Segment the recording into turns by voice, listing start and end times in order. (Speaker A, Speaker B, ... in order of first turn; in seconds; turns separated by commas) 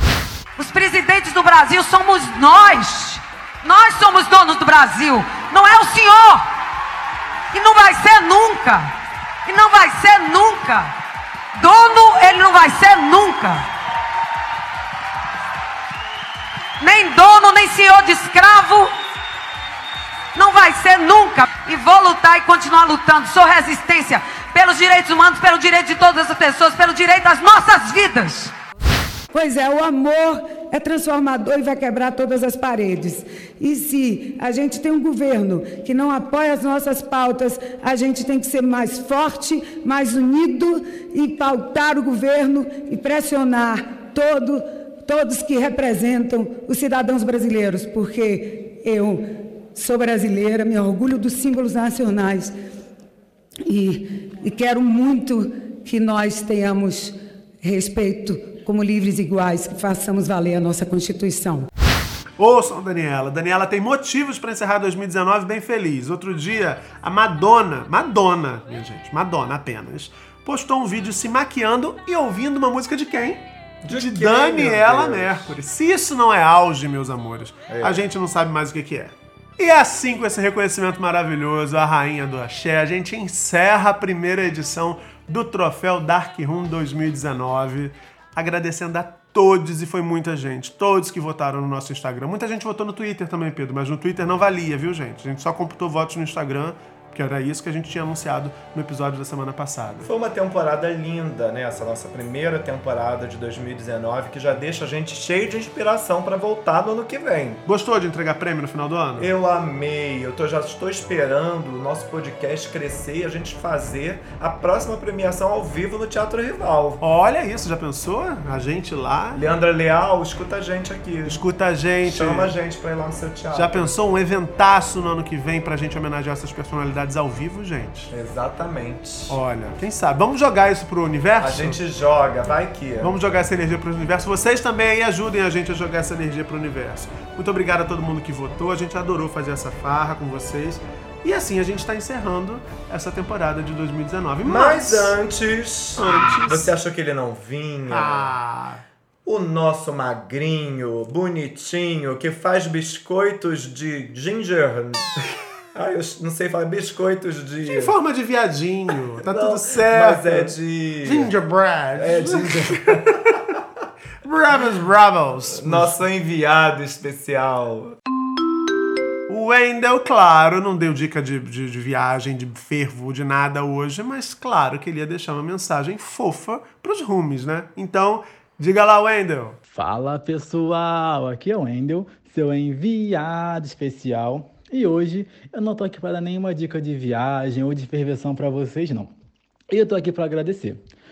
Speaker A: 0.6-6.5, Speaker A: 7.5-8.9, Speaker A: 9.4-10.9, Speaker A: 11.6-13.7, Speaker A: 16.8-18.9, Speaker A: 20.3-28.5, Speaker B: 29.3-52.5, Speaker B: 53.7-61.7, Speaker C: 62.4-100.1, Speaker D: 73.8-75.5, Speaker D: 77.7-78.1, Speaker D: 100.0-107.6, Speaker C: 107.7-109.3, Speaker D: 109.2-117.0, Speaker C: 117.0-119.4, Speaker D: 119.3-121.4, Speaker C: 121.3-122.5, Speaker D: 122.0-123.9, Speaker C: 123.5-128.1, Speaker D: 128.1-129.4, Speaker C: 129.3-131.8, Speaker D: 131.4-133.2, Speaker C: 133.0-145.1, Speaker D: 144.4-148.3, Speaker C: 146.0-146.7, Speaker C: 147.9-148.8, Speaker D: 149.2-155.1, Speaker D: 155.7-157.9, Speaker C: 157.7-160.5, Speaker D: 159.2-161.3, Speaker C: 161.0-162.9, Speaker D: 161.9-163.4, Speaker C: 164.2-166.0, Speaker D: 165.5-167.9, Speaker C: 169.3-179.6, Speaker E: 179.7-189.1, Speaker E: 189.7-190.8